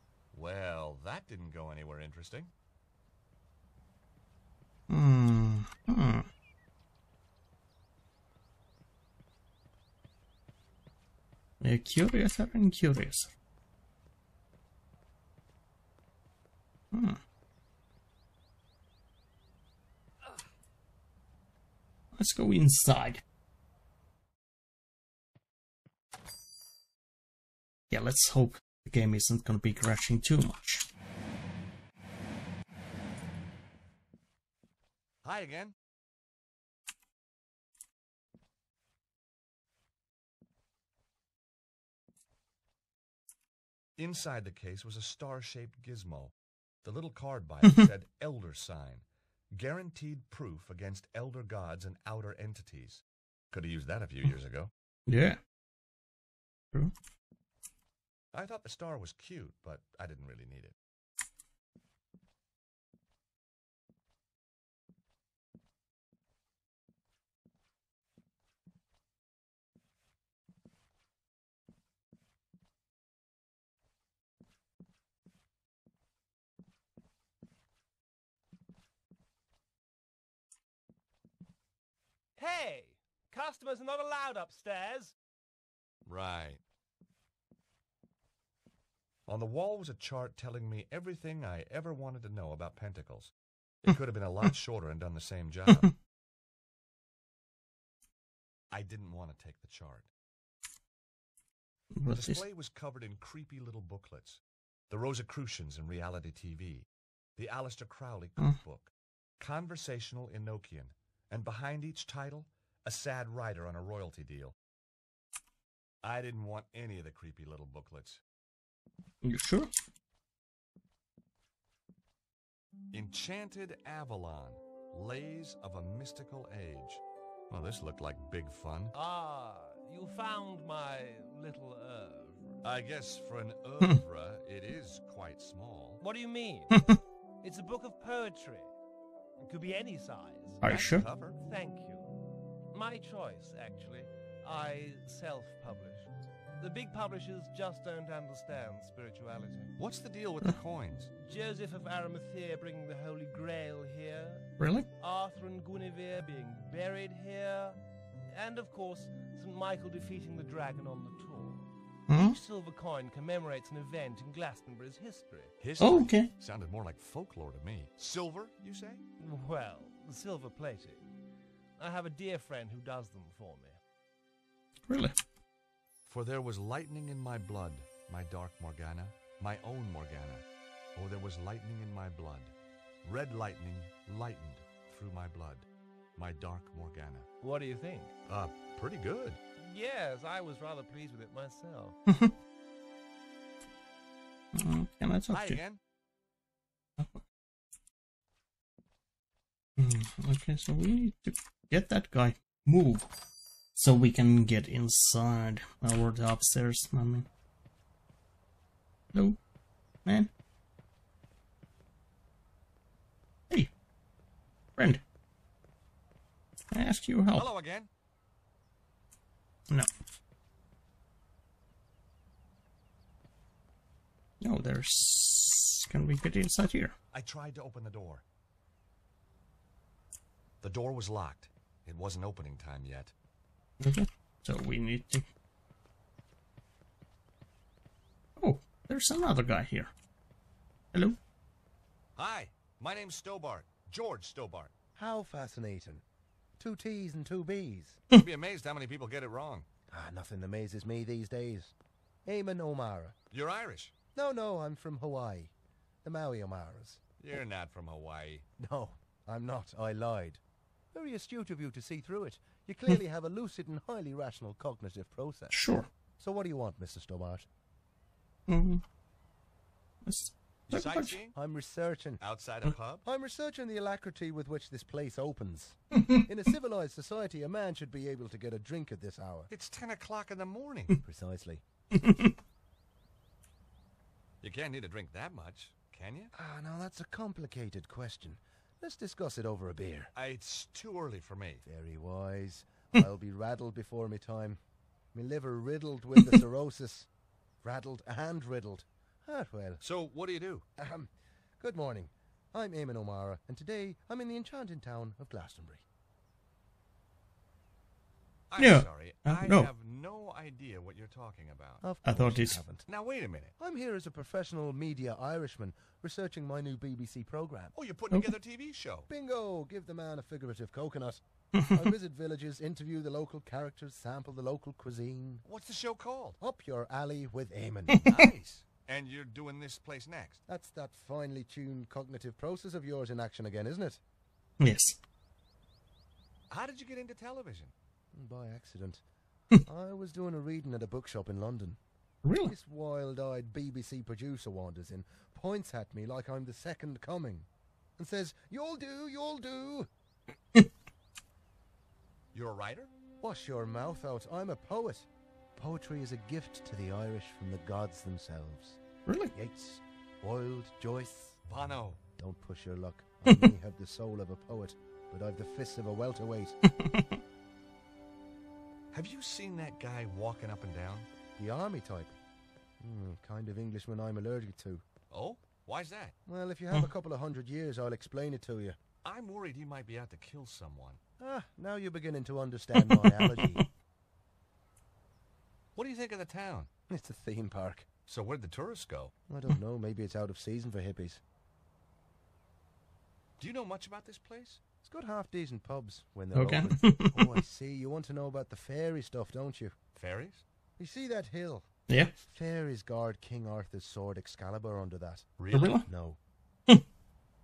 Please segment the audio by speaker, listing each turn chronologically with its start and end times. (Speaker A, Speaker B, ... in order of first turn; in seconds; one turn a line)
Speaker A: 0.3-2.5
Speaker B: 4.9-6.3
Speaker B: 11.6-13.3
Speaker B: 16.9-17.2
Speaker B: 22.1-23.2
Speaker B: 27.9-30.8
Speaker A: 35.2-35.7
Speaker A: 44.0-46.3
Speaker A: 46.8-54.7
Speaker B: 55.1-55.4
Speaker A: 58.3-60.7
Speaker C: 82.3-85.1
Speaker A: 86.0-86.6
Speaker A: 89.3-93.3
Speaker A: 93.8-95.9
Speaker A: 98.7-100.1
Speaker B: 102.0-102.4
Speaker A: 102.1-106.8
Speaker A: 107.4-114.5
Speaker A: 116.0-118.2
Speaker B: 119.2-119.7
Speaker A: 122.9-128.9
Speaker C: 128.9-132.6
Speaker A: 132.6-136.0
Speaker C: 136.0-136.8
Speaker C: 137.4-138.7
Speaker C: 139.4-140.6
Speaker B: 140.6-141.0
Speaker A: 140.7-141.4
Speaker C: 141.2-142.1
Speaker C: 142.7-149.7
Speaker A: 149.8-151.1
Speaker C: 151.2-161.7
Speaker B: 154.6-154.9
Speaker B: 162.1-162.4
Speaker C: 162.2-165.5
Speaker A: 165.6-169.0
Speaker B: 165.8-166.3
Speaker C: 169.2-171.1
Speaker C: 171.8-173.8
Speaker B: 174.9-175.2
Speaker A: 176.1-180.4
Speaker A: 180.9-182.5
Speaker A: 183.0-187.3
Speaker C: 187.4-188.1
Speaker A: 188.3-189.4
Speaker C: 189.6-192.0
Speaker B: 192.1-192.3
Speaker B: 194.5-195.6
Speaker A: 195.3-195.8
Speaker B: 199.8-203.1
Speaker B: 203.7-207.3
Speaker B: 210.0-210.3
Speaker B: 214.8-215.0
Speaker B: 216.7-217.5
Speaker A: 217.3-217.9
Speaker B: 224.4-226.9
Speaker A: 227.1-228.2
Speaker A: 230.6-233.1
Speaker B: 233.8-235.2
Speaker B: 238.4-239.9
Speaker A: 242.2-244.7
Speaker D: 244.9-246.0
Speaker D: 246.6-248.0
Speaker A: 248.2-249.7
Speaker D: 249.9-251.7
Speaker D: 252.2-253.1
Speaker A: 253.3-253.9
Speaker D: 254.1-255.5
Speaker D: 256.0-257.0
Speaker A: 257.2-258.4
Speaker D: 258.6-260.4
Speaker D: 260.9-265.5
Speaker B: 265.5-265.9
Speaker D: 266.2-267.5
Speaker B: 268.5-268.8
Speaker B: 270.0-271.2
Speaker A: 270.7-271.3
Speaker D: 271.3-272.2
Speaker A: 272.2-273.0
Speaker D: 273.0-279.5
Speaker A: 279.5-280.9
Speaker D: 281.0-281.6
Speaker B: 281.9-282.3
Speaker A: 284.4-286.3
Speaker D: 286.3-290.1
Speaker A: 290.1-291.6
Speaker D: 291.6-294.6
Speaker D: 295.1-297.1
Speaker D: 297.6-299.8
Speaker A: 299.8-300.6
Speaker D: 300.8-305.8
Speaker A: 308.5-311.8
Speaker B: 308.6-309.7
Speaker D: 311.8-312.8
Speaker B: 312.0-312.6
Speaker A: 312.9-313.5
Speaker D: 313.6-317.7
Speaker A: 317.7-319.1
Speaker D: 319.1-325.4
Speaker B: 321.6-321.8
Speaker A: 325.4-326.4
Speaker D: 326.4-328.0
Speaker A: 328.0-330.4
Speaker D: 330.5-334.0
Speaker B: 334.6-335.0
Speaker A: 336.5-337.7
Speaker D: 338.1-339.0
Speaker D: 339.6-341.8
Speaker B: 342.2-342.5
Speaker D: 342.4-349.9
Speaker A: 352.3-352.9
Speaker D: 353.2-358.8
Speaker B: 359.1-359.3
Speaker D: 359.3-361.4
Speaker A: 361.5-362.0
Speaker D: 362.2-366.6
Speaker B: 366.7-367.2
Speaker A: 368.9-371.1
Speaker D: 371.4-372.1
Speaker D: 372.8-374.8
Speaker A: 375.1-376.1
Speaker D: 376.2-378.8
Speaker A: 379.0-381.0
Speaker D: 381.2-383.6
Speaker A: 385.8-386.7
Speaker D: 386.9-387.9
Speaker A: 388.1-389.1
Speaker D: 389.3-391.2
Speaker A: 393.4-394.6
Speaker D: 394.8-399.7
Speaker B: 396.3-397.2
Speaker A: 399.9-400.4
Speaker D: 400.8-405.3
Speaker A: 405.4-405.8
Speaker B: 405.5-405.9
Speaker D: 405.9-406.2